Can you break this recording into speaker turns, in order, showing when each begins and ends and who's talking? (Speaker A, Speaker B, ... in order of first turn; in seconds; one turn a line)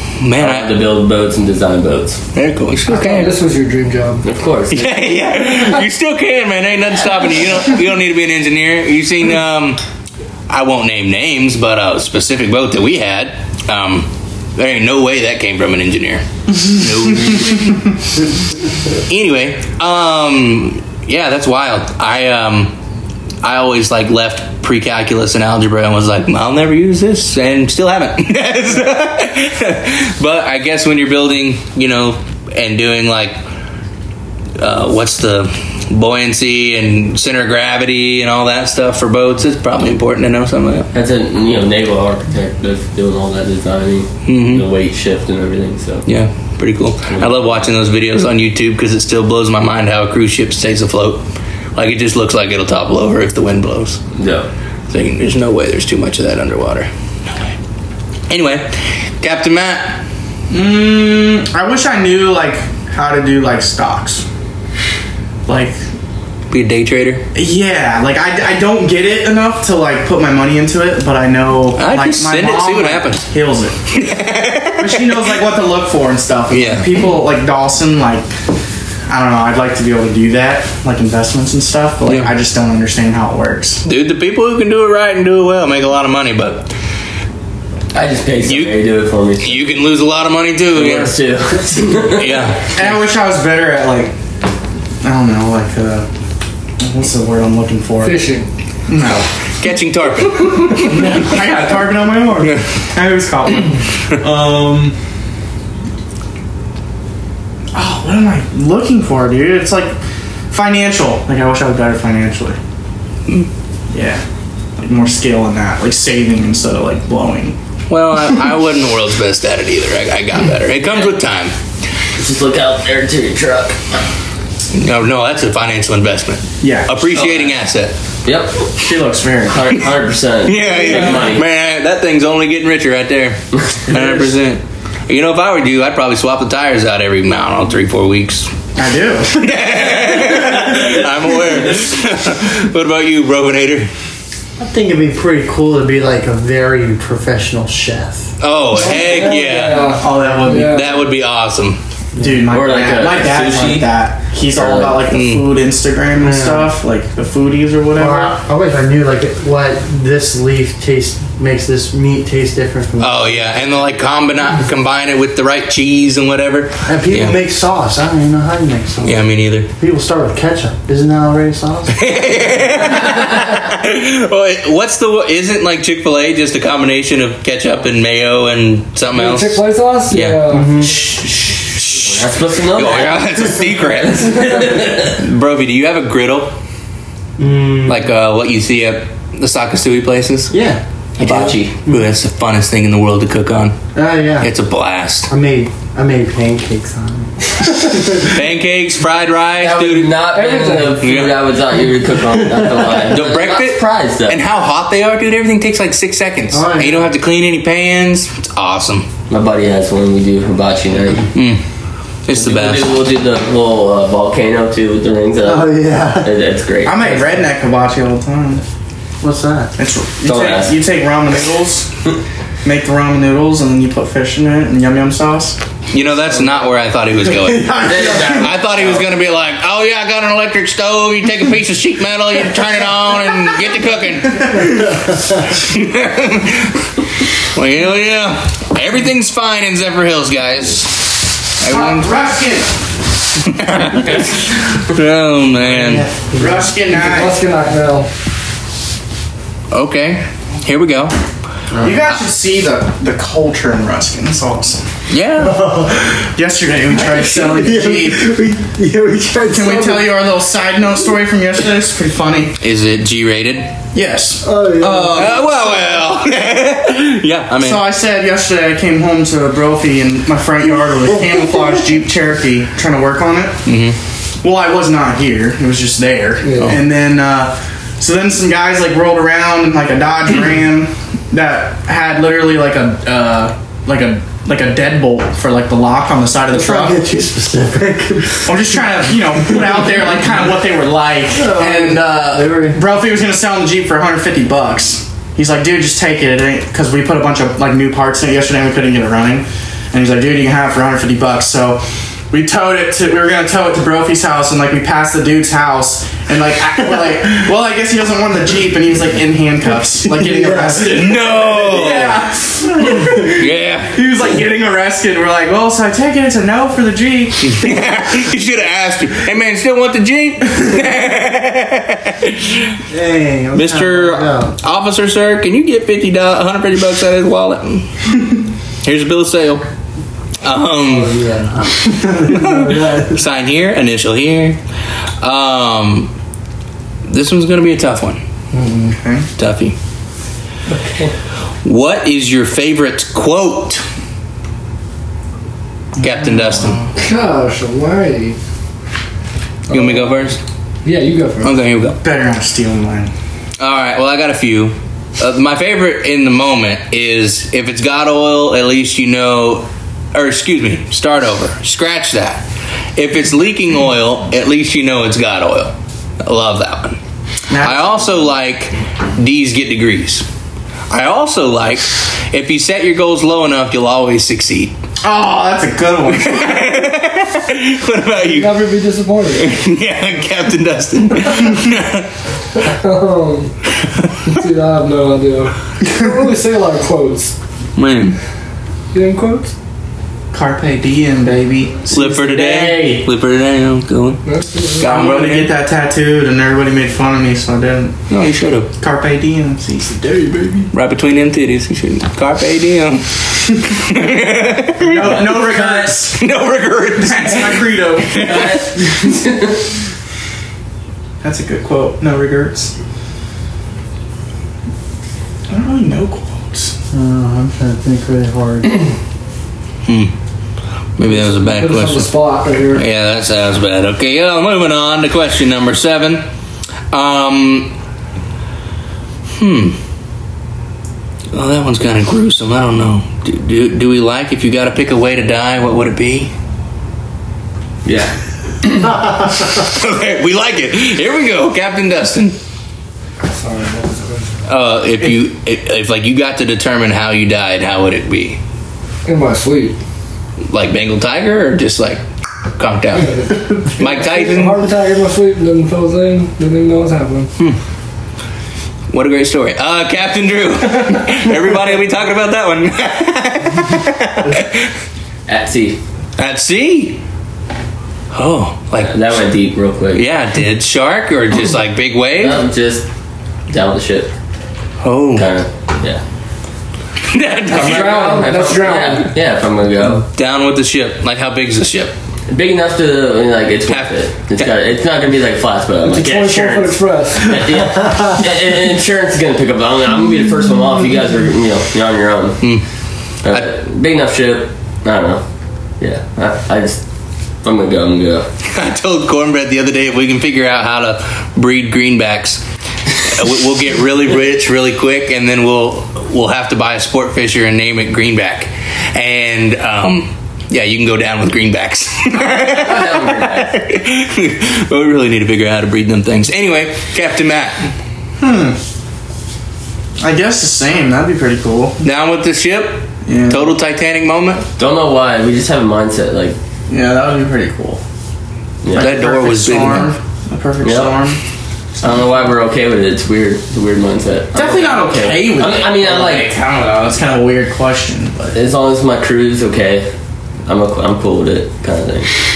Speaker A: 0.2-0.7
Speaker B: 0.4-2.2
Speaker A: 2.3-3.3
Speaker C: 2.9-4.2
Speaker B: 4.2-5.0
Speaker A: 4.7-9.8
Speaker A: 10.5-17.9
Speaker A: 19.1-22.7
Speaker A: 23.4-33.4
Speaker A: 34.6-40.9
Speaker B: 40.9-46.0
Speaker A: 44.3-44.6
Speaker A: 46.0-51.2
Speaker B: 47.1-47.6
Speaker A: 51.7-54.0
Speaker B: 54.1-54.5
Speaker A: 54.9-57.5
Speaker A: 58.3-60.0
Speaker D: 60.5-64.2
Speaker D: 65.5-65.8
Speaker A: 66.5-67.2
Speaker D: 67.3-73.8
Speaker A: 71.8-73.2
Speaker A: 73.9-75.2
Speaker D: 74.8-78.3
Speaker A: 76.5-77.1
Speaker D: 79.1-83.8
Speaker A: 82.0-82.3
Speaker A: 83.8-86.7
Speaker B: 87.9-89.7
Speaker A: 88.4-88.7
Speaker A: 89.4-91.1
Speaker B: 90.7-92.5
Speaker A: 92.1-92.9
Speaker D: 92.7-94.1
Speaker D: 95.0-96.1
Speaker D: 96.8-98.3
Speaker C: 98.0-98.5
Speaker D: 98.9-99.2
Speaker A: 99.6-101.4
Speaker D: 100.7-104.9
Speaker D: 107.7-110.0
Speaker D: 110.5-112.6
Speaker D: 113.9-114.2
Speaker D: 114.8-117.6
Speaker A: 117.9-121.5
Speaker B: 122.2-124.0
Speaker A: 124.7-127.9
Speaker D: 126.6-126.9
Speaker B: 127.1-127.5
Speaker B: 128.2-128.8
Speaker D: 128.8-129.7
Speaker B: 129.4-131.4
Speaker A: 130.4-138.5
Speaker D: 133.9-134.3
Speaker D: 138.8-139.9
Speaker A: 139.3-143.9
Speaker E: 144.6-148.3
Speaker A: 148.4-151.8
Speaker C: 148.8-150.9
Speaker D: 150.0-150.9
Speaker E: 152.2-152.4
Speaker D: 152.2-158.3
Speaker B: 152.5-153.9
Speaker B: 154.5-155.0
Speaker A: 155.1-155.5
Speaker E: 156.2-156.7
Speaker E: 157.9-163.8
Speaker A: 163.0-167.4
Speaker E: 166.8-169.2
Speaker A: 169.0-169.7
Speaker E: 169.8-172.1
Speaker A: 171.9-180.4
Speaker C: 179.1-180.8
Speaker E: 180.5-181.0
Speaker A: 181.8-182.1
Speaker B: 182.0-185.2
Speaker A: 182.7-186.5
Speaker E: 187.4-188.0
Speaker A: 187.8-190.5
Speaker E: 190.5-190.8
Speaker B: 191.2-191.7
Speaker A: 191.2-193.8
Speaker E: 193.9-194.5
Speaker A: 194.4-195.3
Speaker E: 195.3-198.3
Speaker A: 198.2-200.2
Speaker B: 199.6-204.4
Speaker C: 200.3-201.0
Speaker A: 201.0-201.4
Speaker A: 202.9-209.1
Speaker E: 206.5-207.1
Speaker B: 209.3-211.3
Speaker A: 211.3-211.6
Speaker A: 212.3-212.9
Speaker B: 212.3-217.1
Speaker E: 215.4-216.3
Speaker D: 216.8-218.6
Speaker E: 219.2-219.7
Speaker D: 219.8-221.9
Speaker B: 220.2-220.8
Speaker D: 222.6-225.6
Speaker A: 225.9-236.8
Speaker E: 227.4-228.5
Speaker B: 227.8-229.0
Speaker A: 237.5-242.1
Speaker D: 241.6-242.7
Speaker A: 243.4-246.1
Speaker E: 245.6-246.7
Speaker D: 246.3-247.4
Speaker C: 246.9-248.1
Speaker A: 249.7-251.1
Speaker D: 251.8-254.8
Speaker A: 255.1-255.7
Speaker E: 255.4-256.3
Speaker D: 256.3-258.3
Speaker E: 257.0-260.1
Speaker D: 259.4-262.6
Speaker A: 262.6-263.7
Speaker D: 263.9-265.5
Speaker E: 264.4-265.4
Speaker A: 265.1-267.9
Speaker D: 267.6-273.6
Speaker A: 273.6-274.0
Speaker D: 274.4-287.0
Speaker C: 276.4-276.8
Speaker E: 286.5-288.7
Speaker D: 288.4-317.8
Speaker E: 291.3-292.8
Speaker E: 310.2-310.9
Speaker A: 310.9-312.2
Speaker A: 313.2-313.9
Speaker A: 317.4-322.8
Speaker E: 322.9-324.5
Speaker A: 323.5-328.2
Speaker A: 328.8-329.6
Speaker A: 330.4-331.2
Speaker E: 330.9-333.2
Speaker A: 332.0-334.6
Speaker A: 335.2-336.1
Speaker A: 337.1-338.2
Speaker D: 338.6-339.3
Speaker A: 339.4-339.8
Speaker A: 341.6-343.8
Speaker D: 346.0-346.9
Speaker A: 346.0-346.8
Speaker C: 346.9-348.4
Speaker C: 349.7-351.5
Speaker A: 349.7-350.4
Speaker A: 351.4-352.0
Speaker D: 352.0-353.1
Speaker A: 353.6-362.4
Speaker A: 362.9-367.0
Speaker D: 367.5-368.2
Speaker A: 367.6-370.2
Speaker A: 370.9-374.7
Speaker D: 375.0-376.8
Speaker A: 376.1-378.8
Speaker C: 378.3-379.5
Speaker A: 379.3-382.1
Speaker C: 382.6-383.5
Speaker C: 384.2-387.3
Speaker A: 387.8-388.2
Speaker C: 388.9-389.5
Speaker D: 390.3-393.0
Speaker A: 391.9-394.2
Speaker C: 394.2-394.9
Speaker A: 394.8-395.5
Speaker D: 394.8-397.9
Speaker A: 398.1-398.7
Speaker D: 398.8-400.7
Speaker A: 400.7-403.2
Speaker A: 403.7-405.4
Speaker D: 404.8-406.2
Speaker B: 405.1-406.1
Speaker A: 406.1-408.6
Speaker D: 407.0-408.8
Speaker B: 408.2-409.6
Speaker D: 411.2-412.7
Speaker D: 415.5-416.7
Speaker E: 416.9-418.9
Speaker A: 419.9-420.1
Speaker A: 421.0-422.1
Speaker C: 421.1-422.8
Speaker A: 422.7-426.2
Speaker A: 426.9-427.7
Speaker A: 429.4-429.8
Speaker A: 431.3-436.3
Speaker B: 437.8-438.9
Speaker A: 439.2-442.4
Speaker C: 443.2-444.3
Speaker A: 444.5-448.4
Speaker C: 449.1-449.8
Speaker A: 450.5-452.0
Speaker A: 452.6-454.6
Speaker C: 453.0-457.3
Speaker A: 458.9-464.7
Speaker B: 465.3-465.8
Speaker A: 466.2-467.0
Speaker A: 468.1-469.2
Speaker B: 468.8-470.0
Speaker A: 469.9-472.4
Speaker B: 472.2-472.9
Speaker B: 473.5-474.1
Speaker A: 474.8-475.3
Speaker B: 475.1-476.0
Speaker A: 477.1-478.3
Speaker C: 477.5-479.1
Speaker B: 477.5-480.1
Speaker A: 480.1-481.9
Speaker B: 482.3-492.5
Speaker A: 483.7-484.5
Speaker C: 485.8-487.7
Speaker B: 493.2-495.2
Speaker B: 495.8-496.8
Speaker B: 497.4-498.3
Speaker A: 498.5-502.4
Speaker A: 503.0-517.7
Speaker B: 512.2-513.5
Speaker D: 518.2-518.6
Speaker D: 520.0-521.8
Speaker A: 521.8-524.5
Speaker D: 523.0-523.5
Speaker B: 524.6-526.4
Speaker D: 526.7-527.8
Speaker B: 528.6-528.9
Speaker D: 528.7-531.2
Speaker A: 528.8-529.9
Speaker B: 530.6-531.0
Speaker B: 531.8-536.3
Speaker D: 534.3-538.4
Speaker B: 538.3-539.9
Speaker B: 540.5-542.1